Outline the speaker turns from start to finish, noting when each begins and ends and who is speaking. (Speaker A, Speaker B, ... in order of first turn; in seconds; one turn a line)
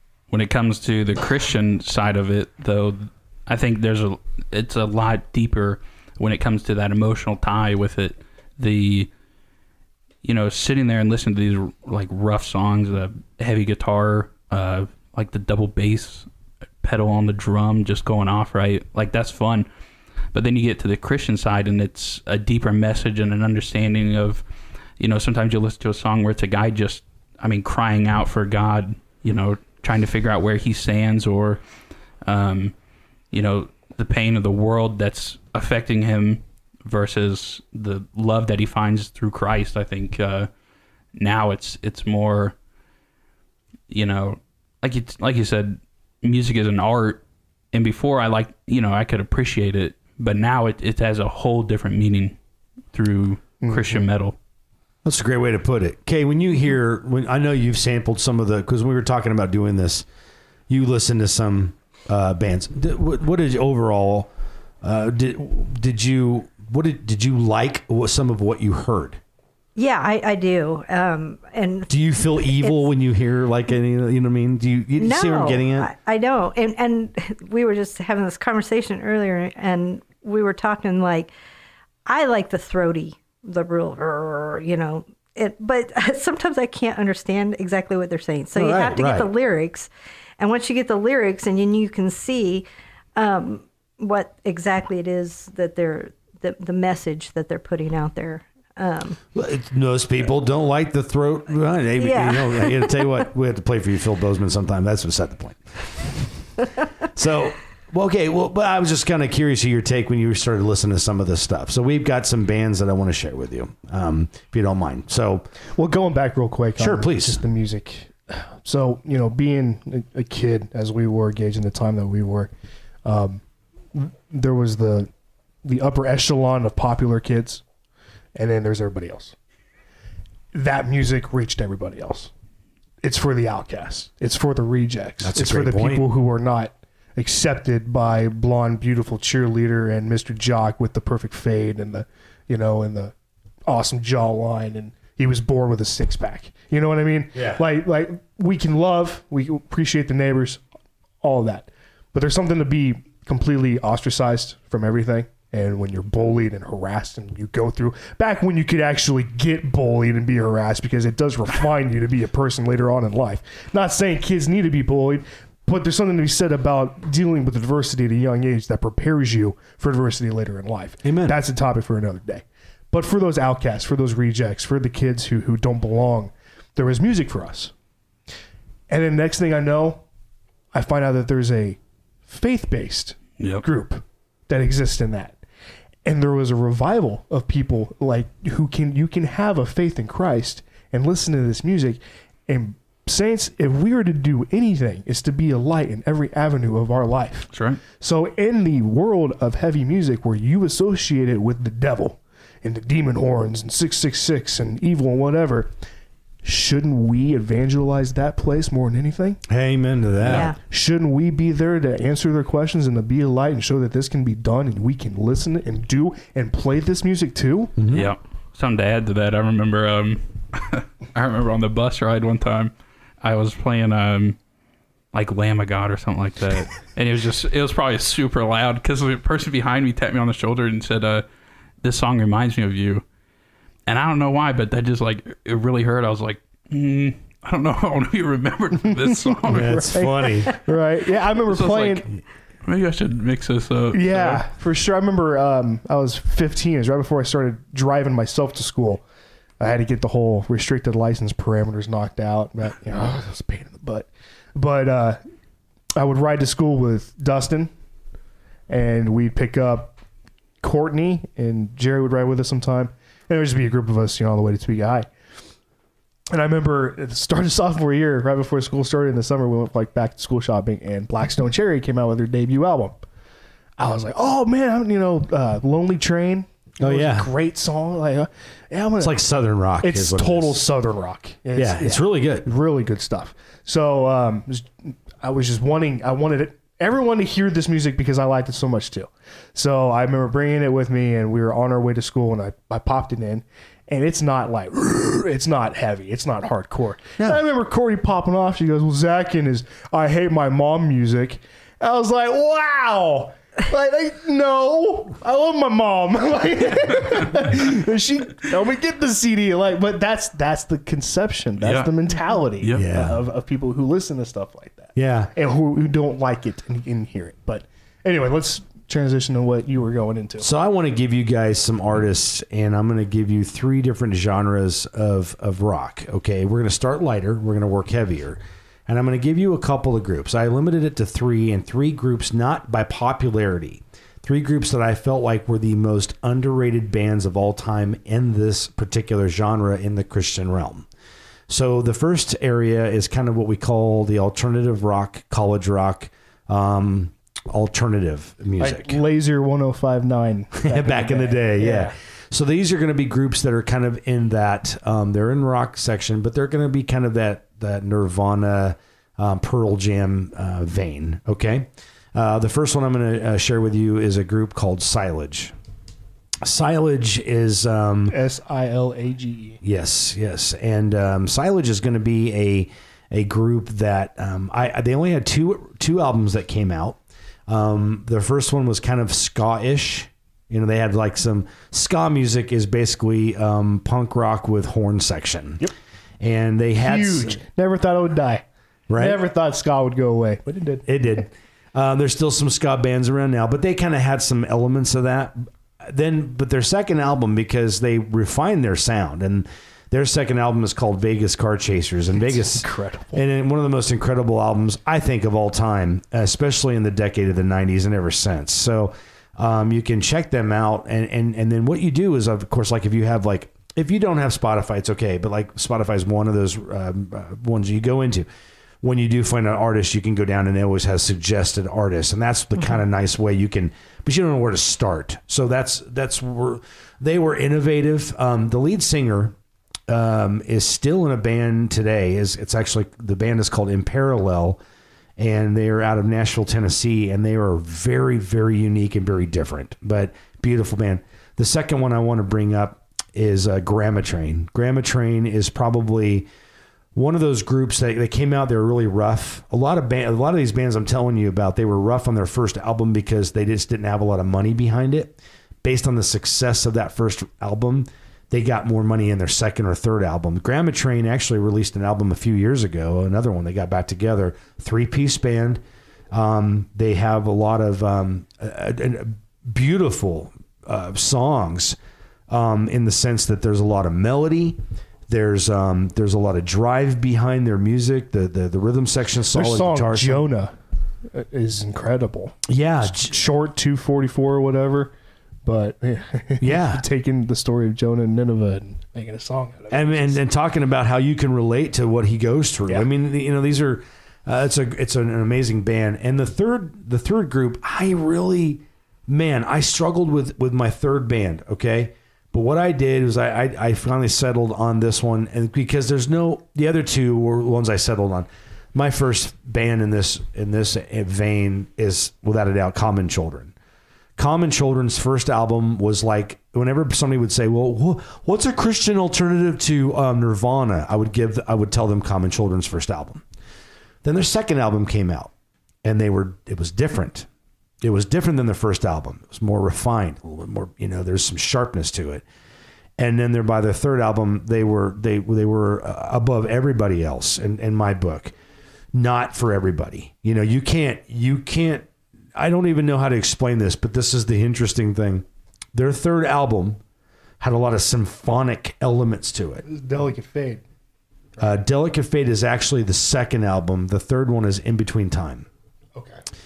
Speaker A: 0.3-9.1
Speaker A: 10.2-16.3
Speaker A: 16.8-19.7
Speaker A: 20.3-24.4
Speaker A: 25.0-31.6
Speaker A: 32.2-32.8
Speaker A: 33.3-40.5
Speaker A: 41.1-42.5
Speaker A: 43.9-52.4
Speaker A: 52.9-54.4
Speaker B: 53.6-54.1
Speaker C: 55.0-60.1
Speaker C: 60.7-64.3
Speaker C: 64.8-69.2
Speaker D: 69.8-72.9
Speaker C: 71.9-75.9
Speaker D: 75.0-81.3
Speaker D: 82.1-99.2
Speaker C: 88.5-89.3
Speaker C: 99.3-106.1
Speaker D: 102.0-103.2
Speaker C: 107.1-115.5
Speaker B: 115.8-122.5
Speaker C: 116.8-117.4
Speaker B: 123.0-123.4
Speaker B: 123.9-125.1
Speaker B: 125.6-127.6
Speaker B: 128.3-129.4
Speaker B: 130.5-132.3
Speaker B: 133.0-143.1
Speaker C: 135.2-136.1
Speaker B: 143.7-150.6
Speaker C: 147.3-147.6
Speaker B: 151.2-177.7
Speaker C: 171.0-171.4
Speaker B: 178.9-180.0
Speaker B: 180.7-185.4
Speaker A: 183.4-183.6
Speaker B: 186.1-205.7
Speaker A: 197.5-197.8
Speaker B: 206.4-209.4
Speaker C: 209.5-210.5
Speaker D: 210.3-210.6
Speaker B: 210.6-217.8
Speaker C: 217.8-218.1
Speaker A: 217.9-224.4
Speaker A: 225.1-231.2
Speaker A: 231.8-233.1
Speaker A: 233.9-240.1
Speaker B: 239.0-242.1
Speaker C: 239.5-240.5
Speaker A: 241.4-244.4
Speaker B: 243.9-249.0
Speaker B: 249.6-255.2
Speaker B: 256.0-257.7
Speaker B: 258.7-260.0
Speaker B: 260.6-265.1
Speaker B: 266.3-273.0
Speaker B: 273.8-279.2
Speaker C: 276.8-277.3
Speaker C: 279.0-280.6
Speaker B: 279.8-320.5
Speaker C: 281.6-282.5
Speaker A: 311.6-311.9
Speaker A: 312.6-312.9
Speaker C: 312.7-313.2
Speaker C: 315.0-315.3
Speaker C: 320.4-340.9
Speaker C: 341.5-349.0
Speaker B: 348.6-351.9
Speaker C: 350.6-365.6
Speaker C: 366.4-368.2
Speaker B: 368.1-369.6
Speaker C: 369.6-385.7
Speaker C: 386.2-387.4
Speaker B: 386.8-388.4
Speaker C: 388.9-389.2
Speaker B: 389.0-390.9
Speaker C: 390.9-418.3
Speaker B: 402.2-403.2
Speaker C: 418.8-429.4
Speaker C: 429.9-434.6
Speaker C: 435.2-446.3
Speaker C: 446.9-465.6
Speaker C: 466.1-471.8
Speaker C: 472.3-480.3
Speaker B: 479.3-480.5
Speaker B: 481.1-484.9
Speaker C: 482.5-483.1
Speaker B: 485.4-490.2
Speaker C: 486.4-486.8
Speaker C: 489.7-513.5
Speaker C: 514.2-523.2
Speaker C: 524.0-525.3
Speaker C: 525.8-527.3
Speaker C: 527.8-532.2
Speaker C: 533.0-538.3
Speaker C: 538.9-546.8
Speaker C: 547.4-549.6
Speaker B: 549.6-550.6
Speaker C: 551.4-555.5
Speaker B: 556.0-556.2